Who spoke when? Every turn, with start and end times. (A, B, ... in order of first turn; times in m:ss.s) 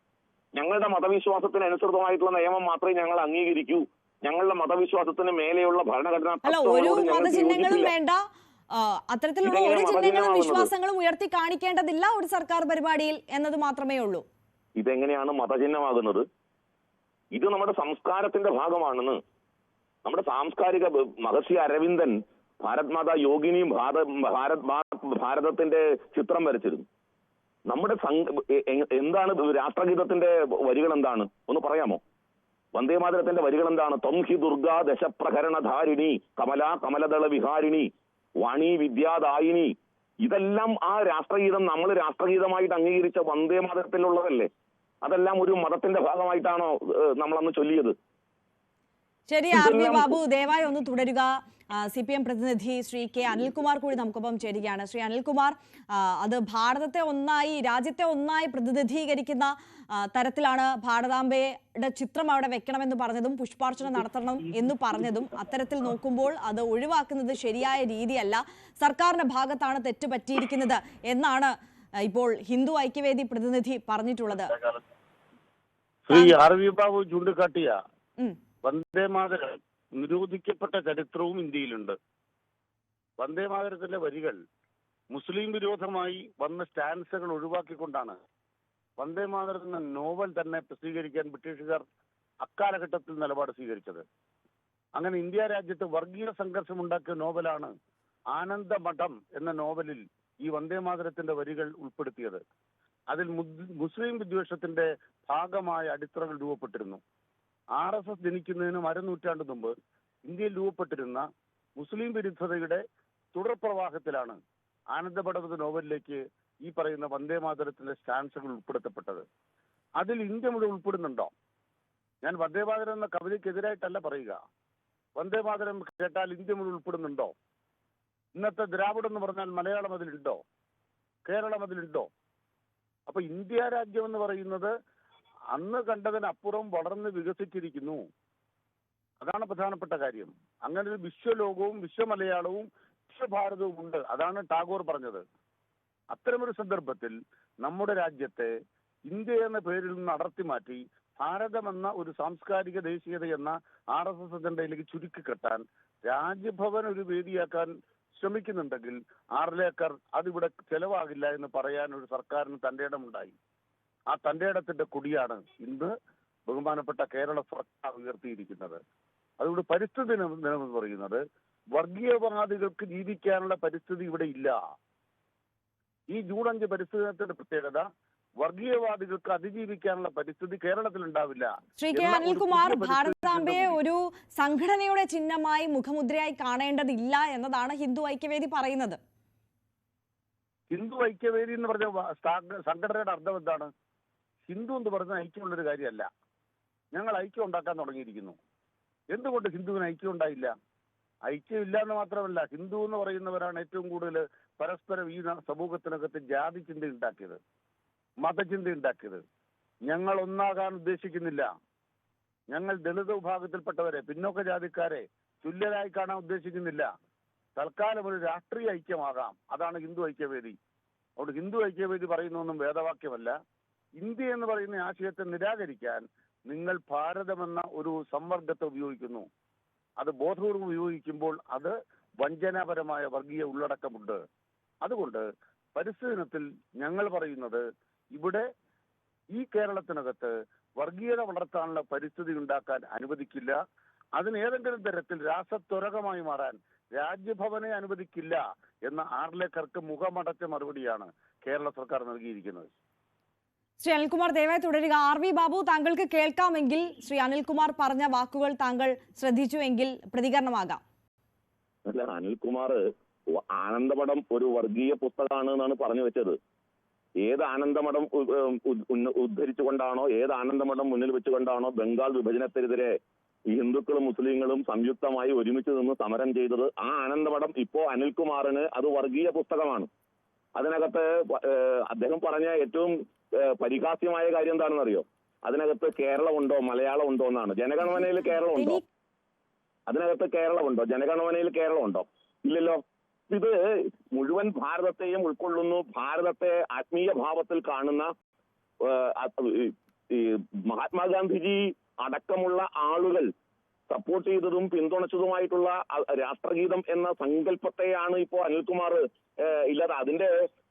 0:00.6-0:07.9 A
0:06.4-0:08.2 B
0:08.7-0:14.2 B
0:09.4-0:10.7 A
0:14.8-0:16.2 A
0:17.3-0:19.2 A
0:20.0-0:26.8 A
0:27.7-0:32.0 A
0:32.7-0:37.9 A
0:38.4-0:39.7 A
0:40.2-0:44.5 A
0:45.0-0:48.0 A
0:49.3-1:11.5 B
0:49.5-0:50.2 A
1:12.0-1:14.5 B
1:16.0-1:17.8 C
1:16.1-1:16.4 B
1:18.6-1:22.0 C
1:23.2-1:24.4 C
1:25.1-1:28.2 C
1:29.0-1:31.8 C
1:32.4-1:34.0 C
1:35.0-1:37.7 C
1:38.3-1:42.4 C
1:43.1-1:47.0 C
1:47.8-1:49.7 C
1:50.3-1:51.2 C
1:51.8-1:52.8 C
1:53.3-1:54.4 C
1:54.9-1:59.2 C
2:00.0-2:01.3 C
2:02.2-2:04.4 C
2:05.2-2:07.3 C
2:08.4-2:10.4 C
2:11.3-2:12.1 C
2:13.1-2:14.7 C
2:15.5-2:18.0 C
2:19.2-2:25.2 C
2:26.1-2:28.5 C
2:29.1-2:43.3 C
2:44.1-2:45.9 C
2:46.5-2:48.8 C
2:49.4-2:51.2 C
2:51.8-2:54.5 C
2:56.1-2:57.8 C
2:58.4-3:03.8 C
3:01.8-3:09.0 B
3:10.7-3:13.7 C
3:14.4-3:16.1 C
3:16.9-3:18.4 C
3:19.1-3:20.5 C
3:21.3-3:27.4 C
3:28.2-3:29.2 C
3:29.9-3:31.5 C
3:32.5-3:36.9 C
3:37.6-3:40.6 C
3:41.2-3:43.3 C
3:44.0-3:49.3 C
3:50.0-3:54.2 C
3:54.8-3:55.2 C
3:55.8-3:57.6 C
3:58.2-3:58.4 C
3:59.3-4:03.6 C
4:04.2-4:12.7 C
4:13.8-4:20.8 B
4:21.9-4:22.8 A
4:23.4-4:26.4 A
4:27.2-4:32.9 A
4:33.5-4:39.9 A
4:40.6-4:48.8 A
4:47.8-4:48.8 B
4:49.9-4:53.5 A
4:54.1-4:58.1 A
4:58.8-5:03.3 A
5:03.9-5:10.3 A